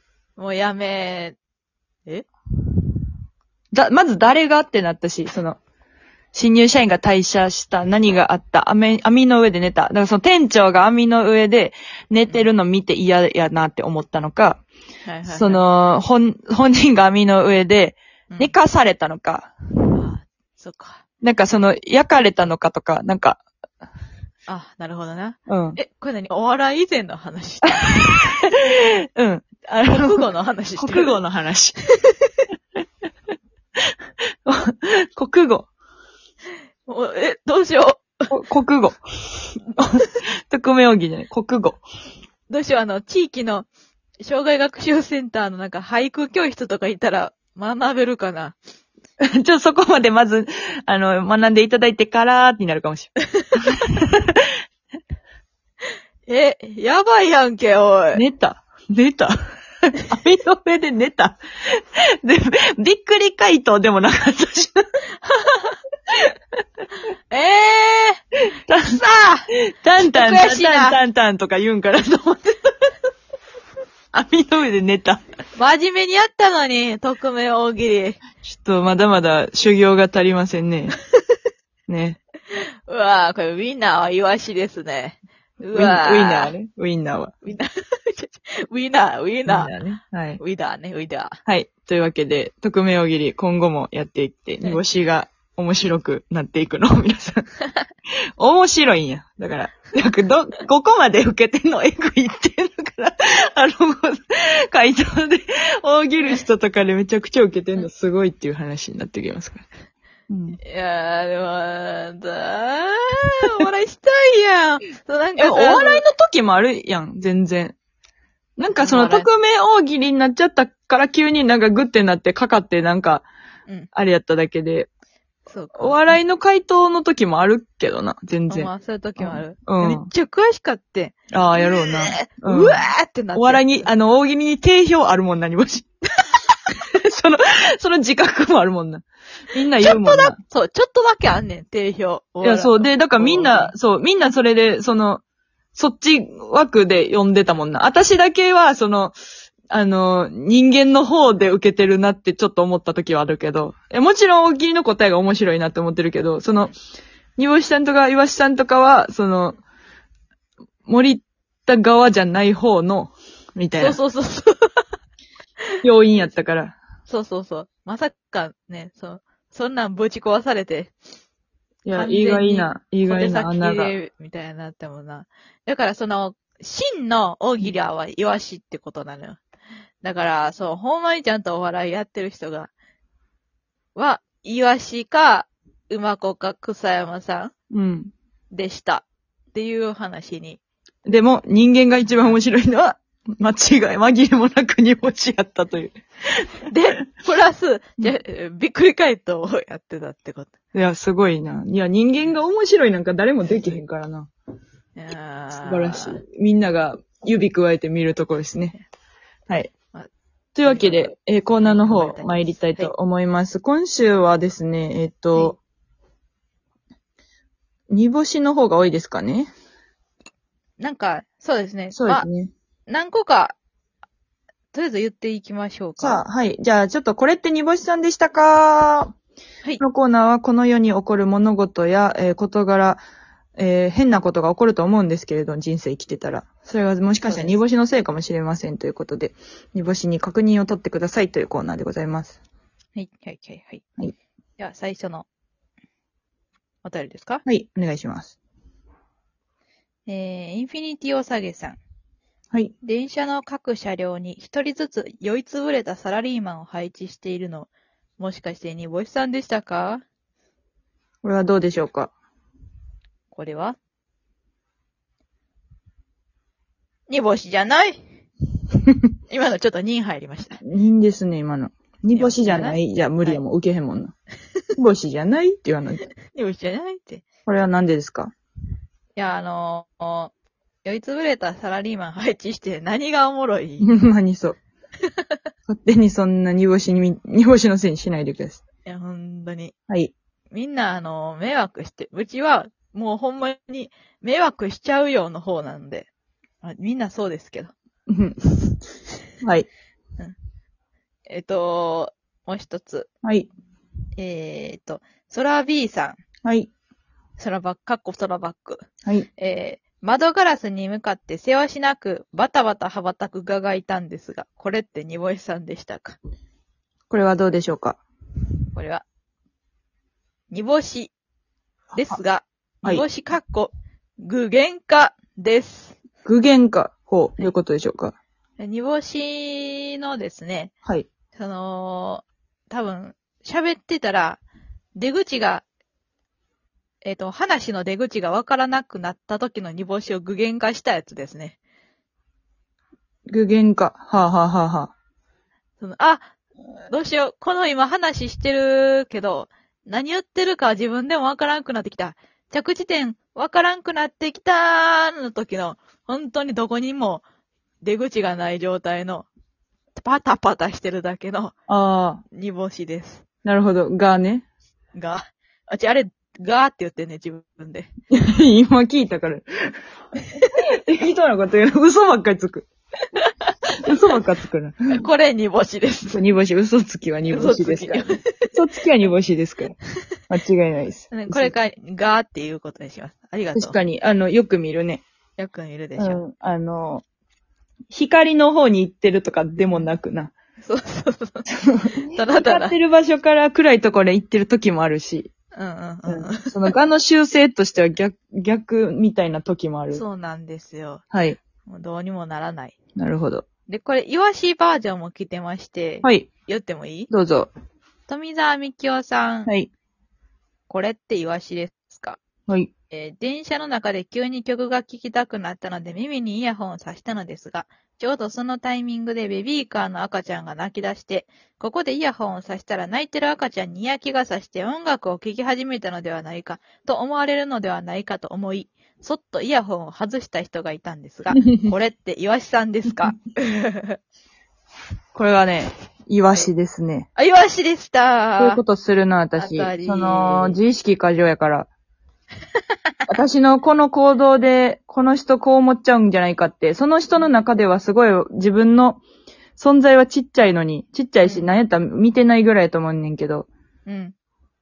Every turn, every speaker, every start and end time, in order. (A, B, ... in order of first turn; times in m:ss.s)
0:00.4-0:01.4 A
0:03.7-0:05.6 B
0:06.3-0:14.6 B
0:15.1-0:15.6 A
0:15.3-0:19.5 B
0:19.9-0:21.0 A
0:21.2-0:23.4 B
0:24.5-0:28.4 A
0:25.5-0:25.8 B
0:27.8-0:30.2 B
0:29.8-0:31.2 A
0:30.8-0:31.8 B
0:34.4-0:35.7 B
0:36.8-0:38.1 A
0:38.3-0:39.0 B
0:39.8-0:41.8 B
0:42.5-0:43.7 A
0:44.2-0:48.6 A
0:49.3-0:54.4 B
0:56.3-0:58.2 A
0:58.1-0:59.3 B
0:59.9-1:04.8 B
1:05.2-1:05.8 A
1:07.3-1:08.2 A
1:08.7-1:09.0 B
1:08.8-1:09.5 A
1:09.8-1:12.5 B
1:10.0-1:11.0 A
1:14.1-1:15.2 B
1:15.6-1:18.2 A
1:18.4-1:21.0 B
1:21.9-1:22.2 B
1:22.9-1:26.5 A
1:25.7-1:27.3 B
1:27.4-1:29.8 A
1:29.5-1:30.4 B
1:30.4-1:31.4 A
1:31.4-1:37.4 B
1:38.4-1:49.6 B
1:50.3-1:50.6 B
1:50.6-1:56.0 A
1:55.4-1:57.8 B
1:58.6-2:03.3 B
1:58.8-1:59.3 A
2:03.9-2:04.9 B
2:05.5-2:06.2 A
2:05.8-2:10.1 B
2:08.5-2:13.9 A
2:11.3-2:12.8 B
2:13.3-2:15.9 B
2:17.1-2:20.4 B
2:19.8-2:23.7 A
2:22.4-2:25.2 B
2:25.8-2:29.1 B
2:29.7-2:36.8 B
2:37.4-2:39.6 B
2:40.9-2:44.0 B
2:43.8-2:44.8 A
2:45.8-2:46.8 B
2:47.1-2:50.9 A
2:51.8-2:53.9 B
2:51.9-2:59.4 A
3:00.0-3:02.7 A
3:03.9-3:07.5 A
3:07.7-3:08.1 B
3:08.5-3:10.6 A
3:11.1-3:16.0 B
3:16.7-3:20.5 A
3:20.7-3:24.3 B
3:23.5-3:23.8 A
3:25.0-3:26.2 A
3:25.6-3:28.7 B
3:30.6-3:35.6 B
3:30.6-3:32.9 A
3:37.9-3:39.5 B
3:40.8-3:42.2 A
3:41.9-3:42.5 B
3:42.9-3:43.6 A
3:44.7-3:46.2 A
3:46.0-3:49.1 B
3:49.8-3:53.0 B
3:53.6-4:02.4 B
3:57.2-3:57.6 A
4:03.0-4:03.8 A
4:04.6-4:05.3 A
4:06.8-4:07.4 A
4:07.4-4:08.3 B
4:10.1-4:11.8 A
4:12.8-4:20.0 A
4:21.2-4:22.1 B
4:23.3-4:23.8 A
4:27.1-4:28.0 A
4:29.3-4:30.6 A
4:30.6-4:34.1 B
4:32.1-4:33.4 A
4:34.8-4:36.1 B
4:36.3-4:37.2 A
4:37.5-4:38.3 B
4:39.2-4:40.3 A
4:40.8-4:43.9 A
4:43.8-4:44.6 B
4:45.7-4:48.6 B
4:48.9-4:49.7 A
4:50.5-4:56.1 A
4:56.6-4:57.7 A
4:58.1-4:58.4 B
4:59.4-4:59.7 B
5:01.3-5:03.1 A
5:03.2-5:03.5 B
5:04.2-5:06.2 A
5:06.4-5:06.7 B
5:07.4-5:08.8 A
5:09.4-5:16.2 A
5:17.1-5:18.0 B
5:18.7-5:19.0 A
5:20.5-5:21.1 A
5:22.0-5:26.0 A
5:26.2-5:28.2 B
5:28.6-5:30.7 A
5:31.4-5:34.4 A
5:35.0-5:35.6 A
5:37.0-5:41.6 A
5:43.3-5:44.9 B
5:45.8-5:46.3 A
5:46.9-5:57.2 A
5:57.8-5:59.3 A
6:00.0-6:01.5 A
6:01.7-6:02.2 B
6:02.3-6:03.2 A
6:03.4-6:04.5 B
6:05.0-6:07.9 A
6:08.1-6:09.5 B
6:10.5-6:12.7 B
6:13.8-6:14.8 B
6:14.9-6:16.2 A
6:16.1-6:19.8 B
6:17.3-6:18.5 A
6:20.3-6:21.5 B
6:21.1-6:23.8 A
6:23.5-6:25.0 B
6:25.4-6:26.2 A
6:26.0-6:27.0 B
6:27.9-6:30.3 B
6:30.6-6:31.4 A
6:31.6-6:35.3 B
6:32.1-6:32.8 A
6:35.5-6:36.5 A
6:36.1-6:40.0 B
6:39.9-6:41.0 A
6:41.1-6:41.4 B
6:41.7-6:42.8 A
6:43.0-6:43.4 B
6:43.7-6:47.1 A
6:46.0-6:46.3 B
6:47.1-6:47.5 B
6:48.1-6:49.5 A
6:50.7-6:52.2 A
6:52.9-7:14.0 A
7:15.1-7:17.1 B
7:17.2-7:18.6 A
7:18.4-7:21.7 B
7:19.4-7:20.6 A
7:23.1-7:29.0 B
7:29.6-7:33.5 B
7:31.2-7:31.5 A
7:33.9-7:34.1 A